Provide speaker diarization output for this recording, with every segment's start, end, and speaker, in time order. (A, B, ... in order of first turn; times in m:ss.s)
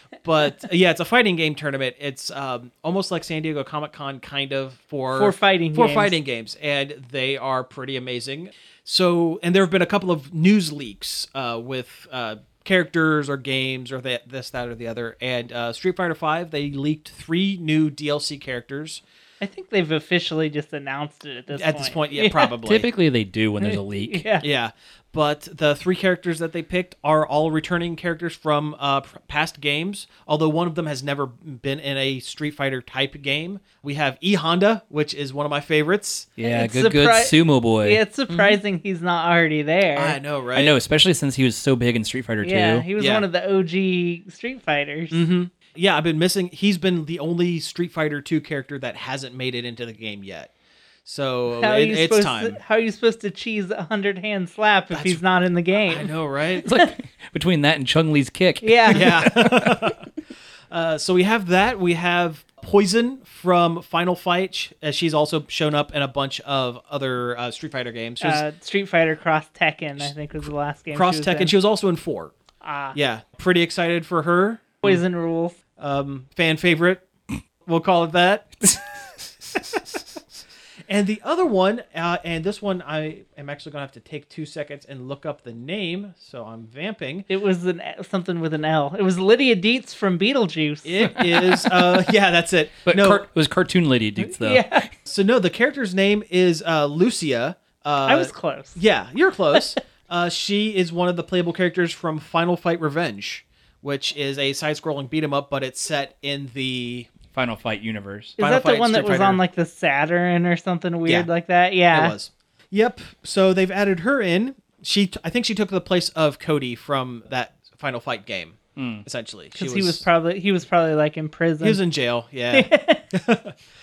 0:00.2-0:19.0 A
0:05.1-0:06.2 B
0:19.4-0:22.5 B
0:21.5-0:22.9 A
0:22.6-0:24.2 C
0:23.6-0:24.4 B
0:24.4-0:36.3 A
0:36.4-0:38.0 C
0:36.4-0:40.2 B
0:38.3-0:38.6 A
0:39.9-0:40.7 A
0:40.5-0:42.9 C
0:42.4-0:45.2 B
0:43.0-0:43.2 A
0:45.1-0:50.5 A
0:51.0-0:52.6 A
0:51.5-0:56.1 B
0:54.9-0:55.2 A
0:55.9-0:56.6 A
0:56.6-0:59.8 C
0:58.6-0:59.1 B
0:58.9-1:00.0 A
1:00.7-1:08.4 A
1:08.2-1:11.5 B
1:10.9-1:12.3 A
1:12.6-1:13.0 B
1:12.9-1:15.0 A
1:14.8-1:15.6 B
1:15.8-1:17.0 A
1:17.6-1:18.8 A
1:20.9-1:27.3 A
1:27.3-1:31.2 B
1:30.8-1:33.2 A
1:31.2-1:32.0 C
1:32.8-1:34.7 C
1:34.2-1:34.9 B
1:35.0-1:47.1 A
1:38.0-1:38.8 B
1:47.3-1:48.4 C
1:48.4-1:52.1 B
1:48.4-1:49.4 A
1:51.9-2:00.0 A
1:58.8-1:59.0 C
1:59.5-2:01.8 B
2:01.6-2:03.5 A
2:02.5-2:03.0 B